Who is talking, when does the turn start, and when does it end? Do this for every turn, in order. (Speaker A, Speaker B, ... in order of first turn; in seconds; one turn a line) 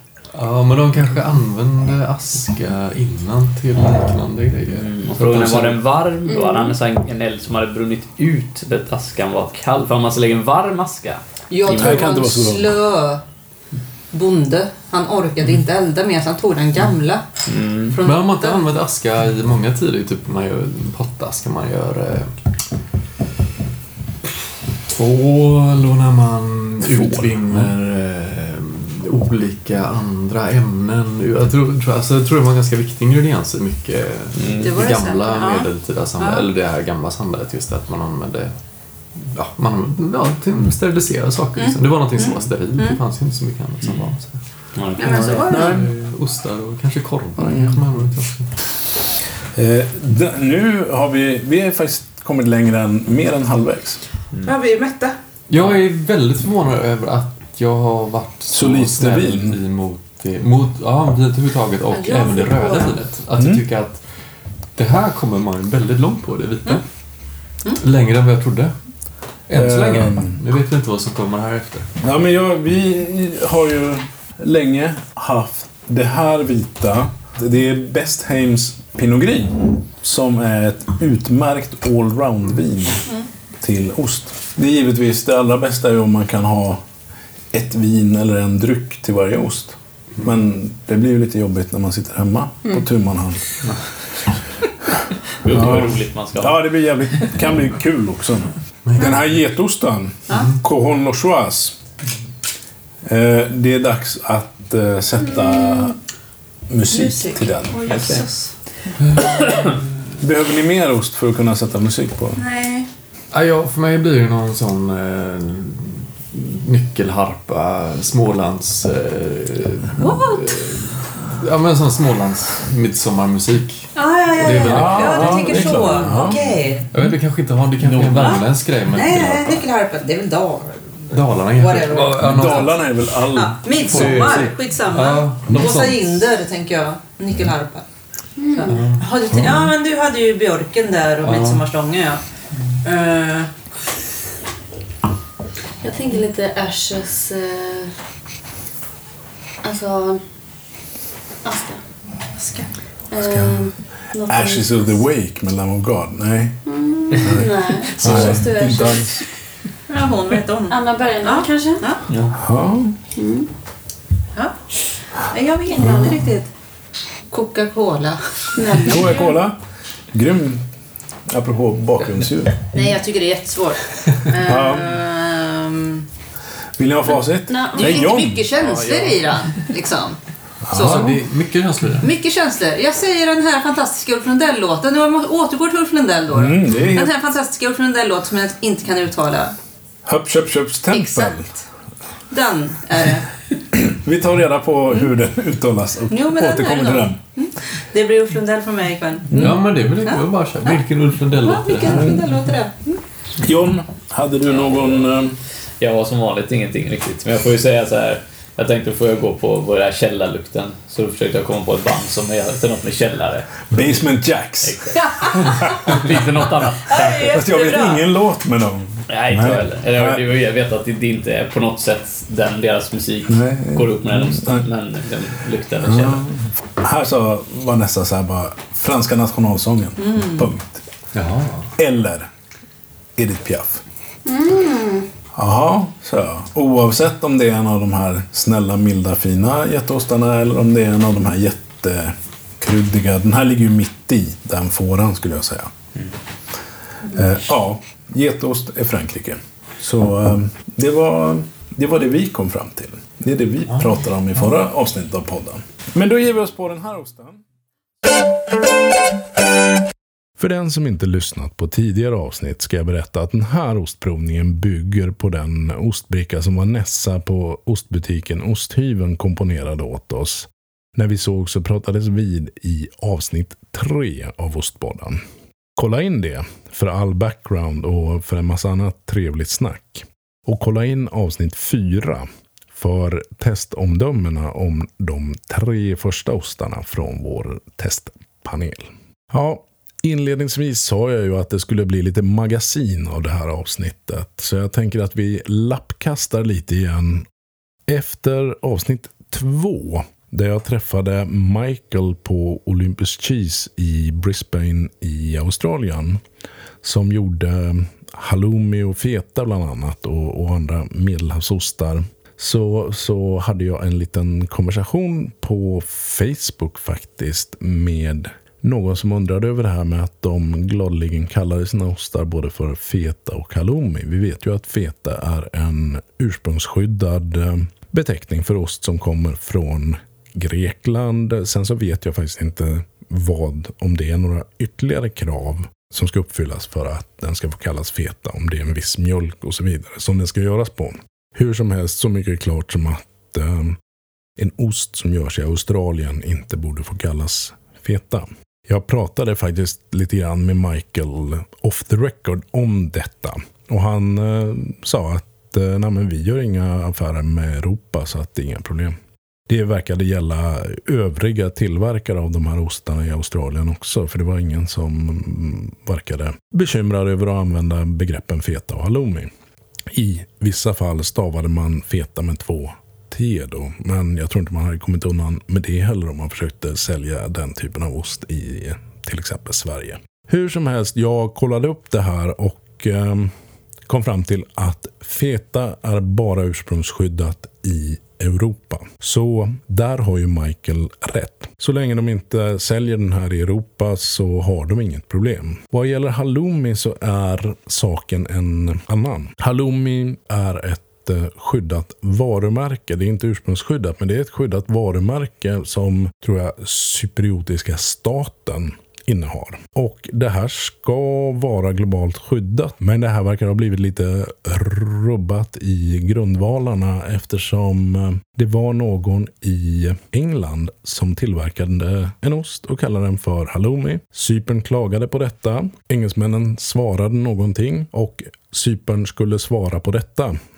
Speaker A: 0.3-5.8
Speaker B: 4.7-12.1
Speaker C: 6.3-6.7
Speaker D: 11.5-13.2
Speaker E: 11.7-12.8
Speaker D: 14.1-17.2
Speaker B: 17.5-18.0
Speaker D: 17.9-18.6
Speaker A: 18.0-22.4
Speaker A: 24.9-38.6
Speaker B: 34.4-34.8
Speaker D: 34.6-36.5
Speaker A: 39.1-48.5
Speaker D: 41.5-43.0
Speaker B: 44.7-45.5
Speaker D: 45.0-45.8
Speaker E: 45.5-45.9
Speaker E: 47.4-47.8
Speaker E: 49.5-54.0
Speaker D: 54.4-55.1
Speaker A: 55.5-66.8
Speaker E: 58.5-59.6
Speaker C: 61.9-63.0
Speaker E: 63.4-63.6
Speaker A: 67.7-68.7
Speaker A: 69.5-71.9
Speaker E: 69.5-70.4
Speaker E: 72.0-83.1
Speaker E: 83.6-86.8
Speaker E: 87.5-93.9
Speaker E: 94.9-101.8
Speaker B: 95.3-97.3
Speaker A: 98.8-99.3
Speaker A: 100.3-100.6
Speaker E: 103.0-106.0
Speaker E: 106.7-108.1
Speaker D: 106.9-108.5
Speaker B: 107.9-108.2
Speaker A: 109.0-109.3
Speaker E: 110.2-112.4
Speaker D: 112.4-112.9
Speaker A: 113.3-129.7
Speaker D: 120.0-120.4
Speaker D: 123.9-126.9
Speaker E: 124.5-126.4
Speaker B: 127.8-128.4
Speaker D: 128.1-137.8
Speaker A: 131.1-132.8
Speaker E: 132.0-134.2
Speaker A: 133.8-136.1
Speaker C: 138.4-138.8
Speaker D: 138.5-142.2
Speaker A: 138.6-139.1
Speaker E: 139.3-139.7
Speaker A: 141.2-141.7
Speaker D: 142.8-143.5
Speaker C: 145.8-148.0
Speaker C: 149.6-150.2
Speaker C: 151.4-151.8
Speaker D: 152.3-152.7
Speaker C: 153.1-155.0
Speaker E: 153.1-153.7
Speaker E: 154.2-156.6
Speaker C: 156.7-159.1
Speaker E: 157.1-159.2
Speaker D: 159.9-162.0
Speaker C: 160.7-161.9
Speaker B: 162.1-162.3
Speaker E: 162.3-163.0
Speaker C: 163.1-163.5
Speaker D: 165.1-166.5
Speaker E: 165.8-166.2
Speaker D: 167.3-169.0
Speaker C: 168.5-169.3
Speaker E: 168.8-169.6
Speaker E: 170.1-170.7
Speaker E: 171.3-172.7
Speaker D: 172.7-176.1
Speaker E: 174.4-174.9
Speaker E: 176.8-178.4
Speaker C: 177.5-178.2
Speaker D: 177.7-180.2
Speaker A: 178.7-179.2
Speaker E: 180.6-181.2
Speaker D: 180.7-181.1
Speaker A: 180.7-182.1
Speaker D: 182.0-189.6
Speaker E: 186.3-187.1
Speaker E: 190.1-191.5
Speaker D: 190.9-191.6
Speaker D: 192.3-193.4
Speaker E: 193.7-197.2
Speaker D: 196.1-199.5
Speaker E: 199.3-199.6
Speaker A: 199.3-202.2
Speaker D: 200.0-203.0
Speaker E: 201.9-202.2
Speaker E: 203.4-205.4
Speaker B: 204.5-205.1
Speaker B: 205.8-214.0
Speaker E: 213.7-216.2
Speaker B: 214.6-217.4
Speaker D: 216.9-218.1
Speaker E: 217.2-220.2
Speaker B: 219.1-226.3
Speaker E: 223.3-224.7
Speaker E: 225.8-230.8
Speaker D: 230.0-230.5
Speaker A: 231.1-231.7
Speaker E: 231.8-232.3
Speaker E: 233.2-233.8
Speaker C: 234.2-235.1
Speaker E: 235.3-245.7
Speaker E: 247.1-257.4
Speaker E: 260.4-275.2
Speaker E: 275.8-297.3
Speaker E: 297.9-306.2
Speaker E: 306.8-343.8
Speaker E: 344.4-358.9
Speaker E: 359.5-369.3
Speaker E: 369.9-383.3
Speaker E: 383.9-430.4